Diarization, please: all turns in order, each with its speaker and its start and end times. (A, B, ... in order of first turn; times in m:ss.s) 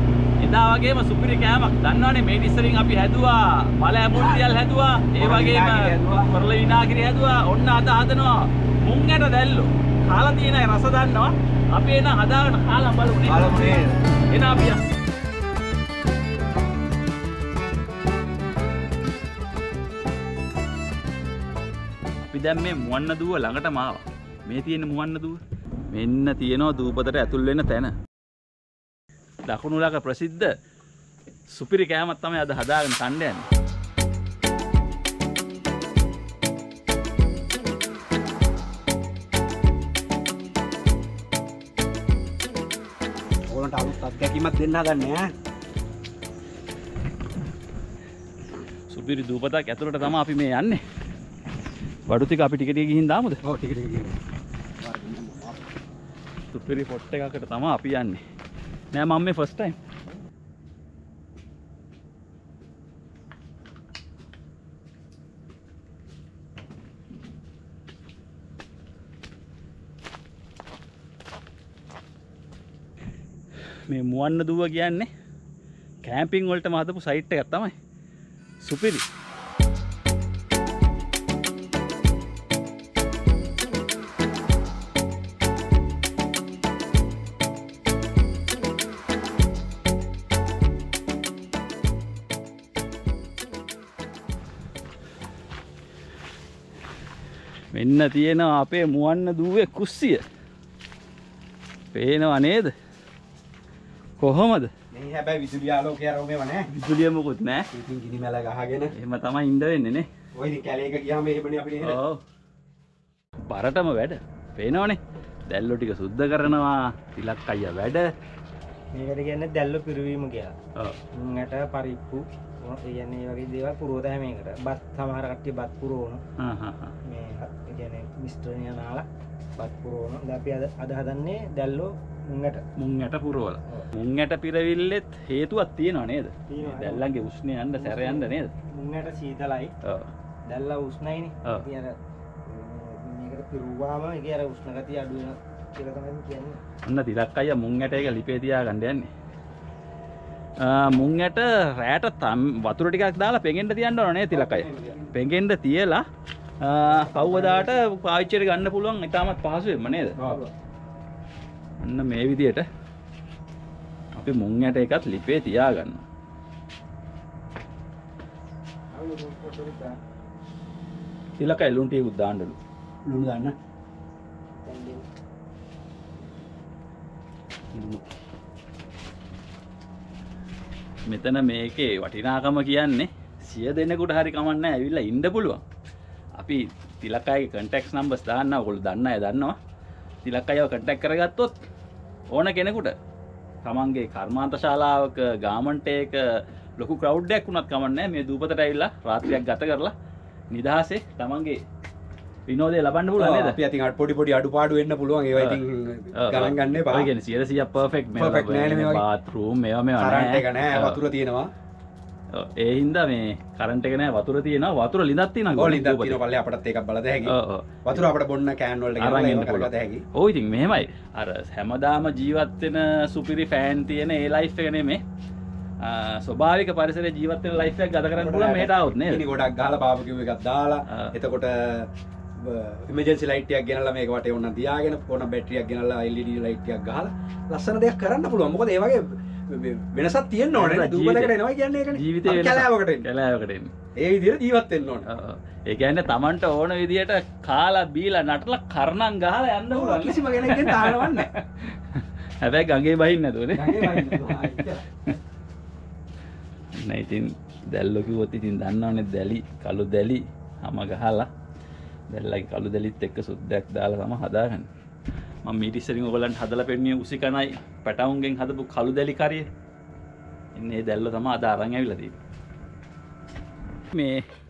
0:00.4-0:14.8 A
0:04.2-0:04.4 B
0:05.2-0:06.4 B
0:13.2-0:14.0 B
0:22.3-0:27.9 A
0:29.5-0:30.5 A
0:31.5-0:33.5 A
0:43.5-0:45.3 B
0:48.9-0:50.8 A
0:52.1-0:53.4 A
0:53.4-0:54.2 B
0:54.8-0:55.7 B
0:56.5-0:58.2 A
0:58.9-0:59.8 A
1:13.9-1:15.1 A
1:16.0-1:17.7 A
1:18.6-1:19.0 A
1:37.7-1:40.2 A
1:41.9-1:42.7 A
1:44.2-1:44.7 A
1:44.9-1:46.7 B
1:46.7-1:47.6 A
1:47.7-1:48.9 B
1:48.9-1:50.1 A
1:50.4-1:52.0 B
1:51.8-1:52.2 A
1:53.5-1:58.1 A
1:58.9-2:00.5 C
2:01.2-2:06.2 C
2:06.4-2:06.9 A
2:07.1-2:09.0 C
2:09.6-2:12.6 C
2:12.8-2:18.5 A
2:16.5-2:17.0 C
2:17.8-2:19.7 C
2:19.8-2:20.1 A
2:20.5-2:22.0 C
2:22.5-2:26.6 C
2:26.8-2:29.1 A
2:30.6-2:36.0 A
2:34.3-2:35.1 B
2:34.5-2:34.9 C
2:36.6-2:40.2 A
2:36.9-2:37.7 C
2:37.2-2:37.6 B
2:41.8-2:42.6 A
2:44.2-2:46.0 A
2:48.9-2:50.0 C
2:51.4-2:52.6 A
2:53.0-2:53.6 B
2:54.6-2:55.0 C
2:57.7-2:58.1 B
3:01.1-3:05.6 A
3:06.4-3:09.6 A
3:10.2-3:11.5 A
3:12.3-3:12.9 A
3:13.6-3:16.2 A
3:16.8-3:19.9 A
3:20.5-3:21.6 A
3:22.5-3:23.6 A
3:23.2-3:27.1 B
3:26.2-3:31.0 A
3:28.2-3:29.0 B
3:30.0-3:31.5 B
3:32.3-3:36.2 A
3:35.5-3:40.0 B
3:37.2-3:38.1 A
3:39.0-3:45.0 A
3:45.8-3:49.2 A
3:48.1-4:03.1 B
4:00.5-4:01.4 A
4:01.9-4:03.7 A
4:04.0-4:05.1 B
4:05.1-4:15.1 A
4:09.7-4:11.3 B
4:13.5-4:14.8 B
4:16.7-4:21.3 A
4:22.1-4:24.7 A
4:25.4-4:29.4 A
4:30.6-4:32.2 A
4:33.9-4:34.2 A